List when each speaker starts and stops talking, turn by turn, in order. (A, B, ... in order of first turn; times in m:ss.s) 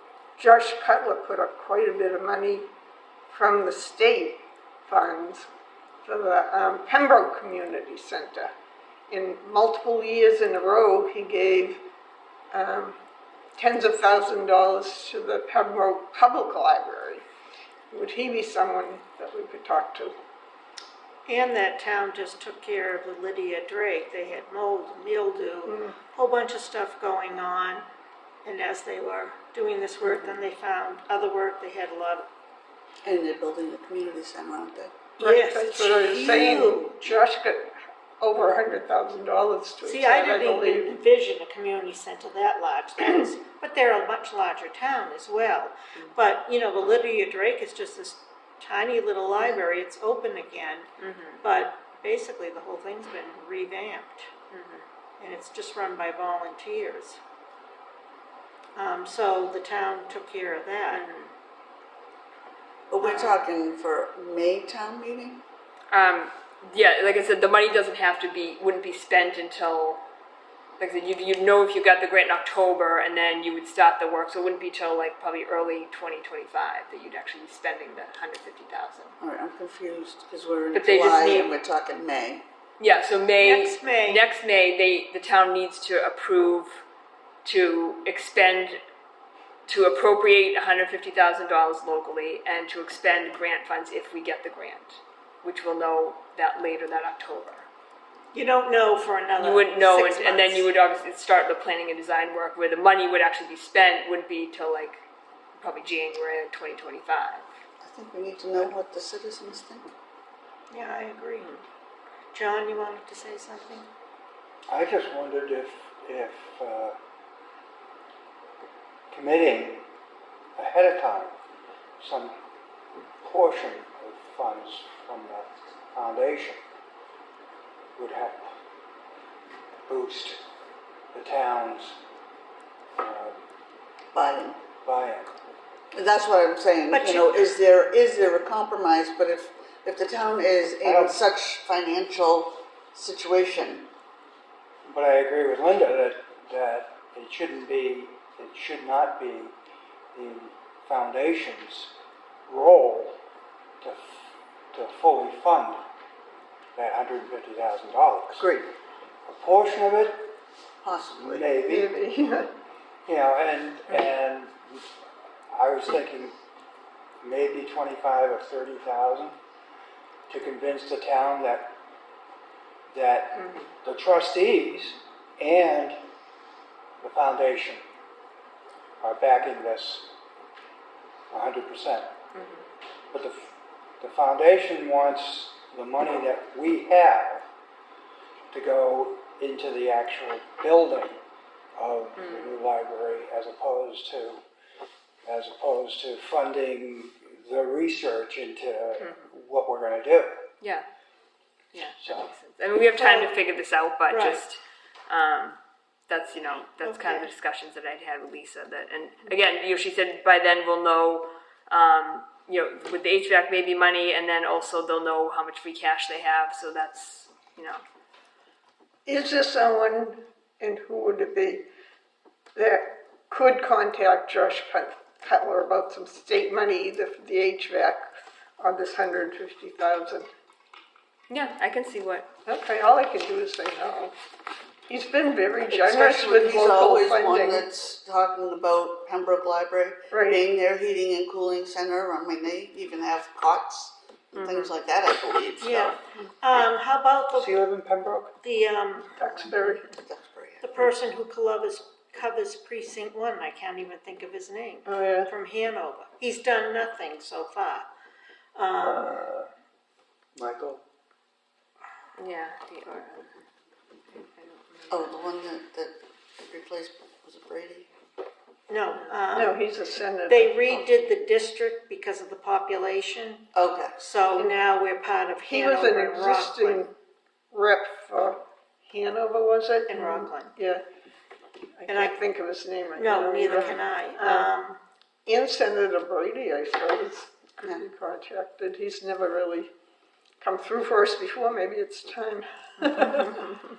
0:00.4-0:02.7 A
0:03.3-0:05.5 A
0:06.0-0:08.5 A
0:09.1-0:11.8 A
0:12.5-0:13.0 A
0:13.6-0:17.2 A
0:17.9-0:20.2 A
0:21.3-0:27.9 B
0:25.7-0:26.0 A
0:28.4-0:32.3 B
0:33.0-0:35.0 C
0:35.2-0:36.9 B
0:35.2-0:41.0 A
0:39.8-0:54.3 B
0:51.0-0:51.4 D
0:54.5-0:54.8 D
0:55.2-0:57.2 B
0:58.8-1:01.0 B
1:00.9-1:01.3 D
1:02.9-1:05.4 C
1:03.0-1:03.4 B
1:05.9-1:10.0 D
1:10.8-1:19.2 D
1:19.2-1:22.4 C
1:20.7-1:21.5 D
1:22.8-1:26.8 D
1:23.4-1:24.2 B
1:27.4-1:28.8 D
1:29.7-1:37.7 D
1:38.3-1:40.7 B
1:39.4-1:45.0 D
1:45.6-1:47.4 D
1:47.8-1:49.9 C
1:50.7-1:51.6 B
1:52.3-1:53.9 B
1:54.7-1:57.0 E
1:59.1-1:59.8 E
2:00.6-2:01.4 E
2:02.0-2:02.4 E
2:03.2-2:06.6 E
2:08.0-2:08.5 E
2:09.9-2:10.4 E
2:11.1-2:12.0 E
2:13.0-2:13.4 E
2:14.1-2:14.6 C
2:14.8-2:15.3 E
2:15.9-2:23.9 C
2:16.9-2:17.5 B
2:20.8-2:21.2 E
2:24.9-2:29.5 E
2:30.1-2:31.9 E
2:32.5-2:33.2 E
2:33.8-2:35.8 E
2:36.8-2:38.5 E
2:38.4-2:38.7 C
2:39.3-2:40.4 E
2:40.8-2:41.5 C
2:41.0-2:41.9 E
2:41.7-2:42.5 A
2:43.1-2:44.9 E
2:45.5-2:46.4 E
2:47.2-2:49.4 E
2:50.3-2:51.8 E
2:52.9-2:56.0 E
2:53.4-2:53.7 D
2:57.0-2:57.8 E
2:59.0-3:00.1 E
3:01.3-3:02.1 E
3:02.3-3:02.6 D
3:03.1-3:07.5 E
3:08.5-3:11.2 E
3:11.8-3:14.4 E
3:12.2-3:12.5 D
3:15.3-3:20.5 E
3:20.6-3:20.9 D
3:21.7-3:37.8 D
3:21.8-3:22.3 E
3:23.0-3:23.3 B
3:24.1-3:24.4 B
3:26.8-3:27.3 B
3:39.1-3:41.7 A
3:42.6-3:48.0 A
3:48.6-3:50.3 A
3:51.3-3:52.3 D
3:52.5-3:54.2 A
3:54.9-3:57.7 A
3:55.7-4:06.0 C
4:00.1-4:00.4 A
4:04.3-4:04.7 D
4:05.6-4:07.6 B
4:07.4-4:08.3 E
4:08.4-4:09.2 B
4:09.2-4:09.8 A
4:09.9-4:10.6 C
4:10.6-4:17.9 B
4:14.9-4:15.3 A
4:18.6-4:19.2 B
4:18.8-4:19.5 E
4:20.4-4:20.8 E
4:22.2-4:23.3 D
4:24.1-4:24.9 D
4:24.9-4:27.9 C
4:28.7-4:29.6 B
4:29.3-4:30.6 A
4:30.3-4:36.8 B
4:33.6-4:34.0 C
4:35.5-4:36.9 A
4:37.5-4:40.8 A
4:39.9-4:40.6 B
4:41.8-4:44.5 A
4:41.9-4:42.2 B
4:43.0-4:44.8 B
4:45.3-4:49.7 A
4:50.4-4:53.5 A